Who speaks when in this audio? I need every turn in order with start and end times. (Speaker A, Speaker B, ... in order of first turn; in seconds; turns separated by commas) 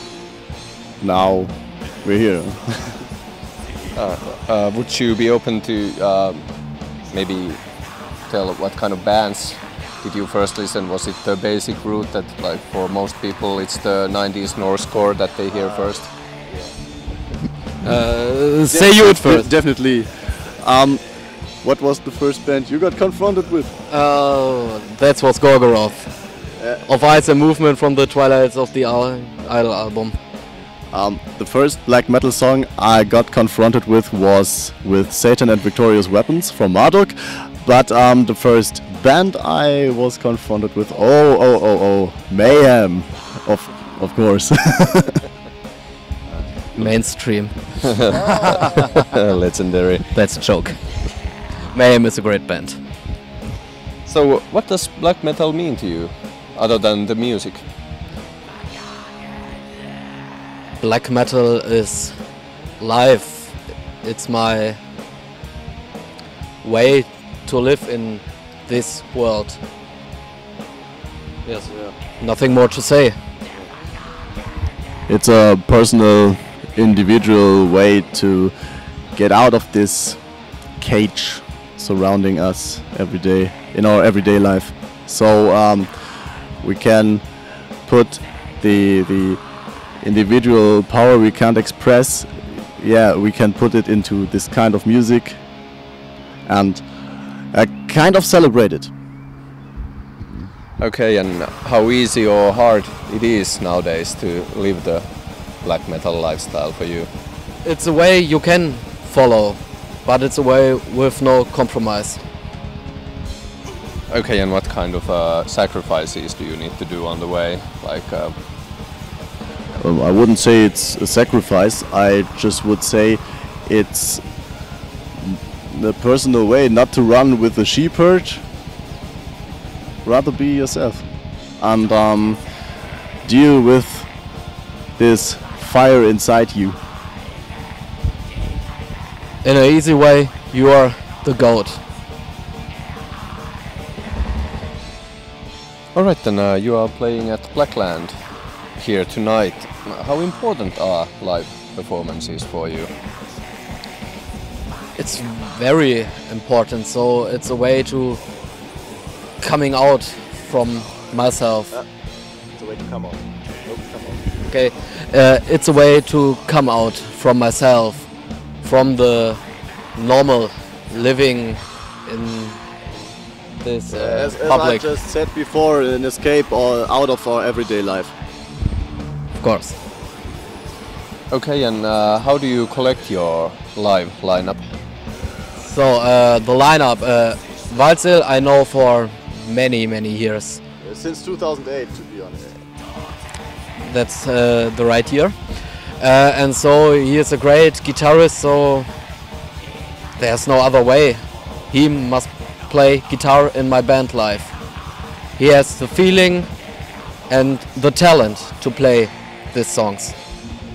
Speaker A: 1.0-3.0, Speaker B: 3.9-6.5, Speaker B: 7.1-7.6, Speaker B: 8.2-16.1, Speaker C: 17.8-19.5, Speaker A: 18.7-21.0, Speaker A: 21.6-23.7, Speaker C: 23.9-26.2, Speaker C: 26.8-30.1, Speaker A: 30.9-45.2, Speaker C: 46.7-48.8, Speaker B: 48.0-50.1, Speaker C: 50.1-50.8, Speaker C: 51.7-52.8, Speaker B: 54.0-57.6, Speaker C: 60.8-62.1, Speaker C: 62.8-64.8, Speaker C: 66.6-69.6, Speaker C: 71.4-73.1, Speaker A: 75.1-78.5, Speaker A: 79.1-80.2, Speaker A: 80.8-85.9, Speaker A: 86.6-87.2, Speaker A: 87.8-89.4, Speaker A: 90.0-95.4, Speaker A: 96.5-96.8, Speaker A: 97.5-98.9, Speaker B: 100.8-105.0, Speaker B: 105.6-107.1, Speaker C: 107.6-112.2, Speaker B: 114.1-118.3, Speaker A: 119.8-124.2, Speaker A: 125.2-128.4, Speaker A: 130.0-131.0, Speaker A: 131.6-132.4, Speaker A: 133.2-134.1, Speaker A: 135.0-136.8, Speaker C: 139.4-141.8, Speaker B: 145.9-148.2, Speaker B: 148.8-152.9, Speaker C: 154.9-158.2, Speaker C: 159.4-161.7, Speaker A: 162.6-164.2, Speaker C: 164.5-168.1, Speaker C: 168.6-169.4, Speaker C: 169.9-172.6, Speaker C: 173.6-174.9, Speaker A: 173.9-178.1, Speaker C: 179.4-179.8, Speaker B: 181.3-184.6, Speaker C: 185.6-190.6, Speaker A: 190.8-192.6, Speaker C: 193.8-198.9, Speaker C: 200.2-204.5, Speaker C: 205.4-206.5, Speaker C: 207.3-210.2